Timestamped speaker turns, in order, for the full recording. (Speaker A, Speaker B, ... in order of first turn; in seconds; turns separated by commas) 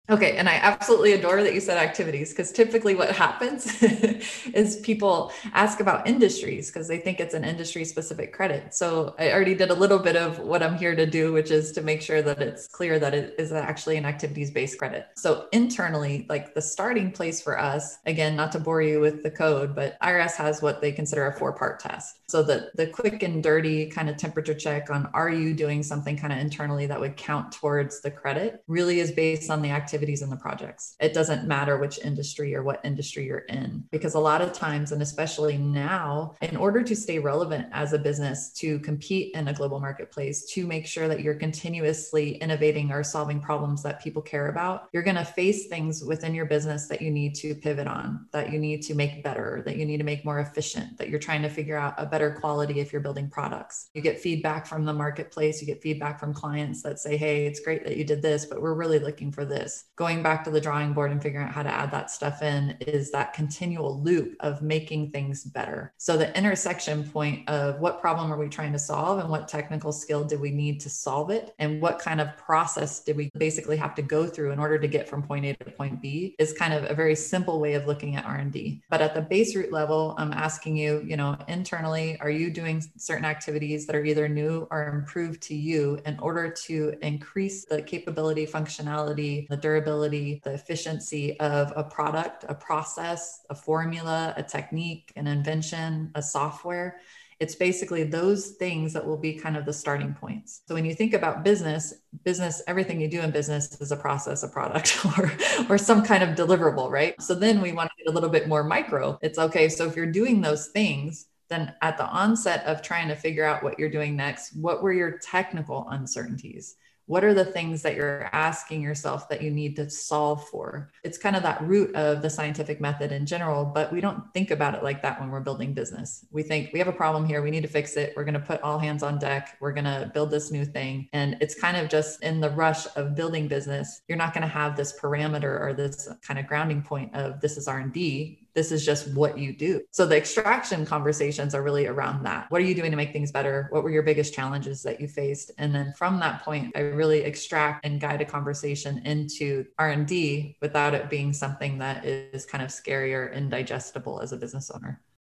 Speaker A: 0.1-155.0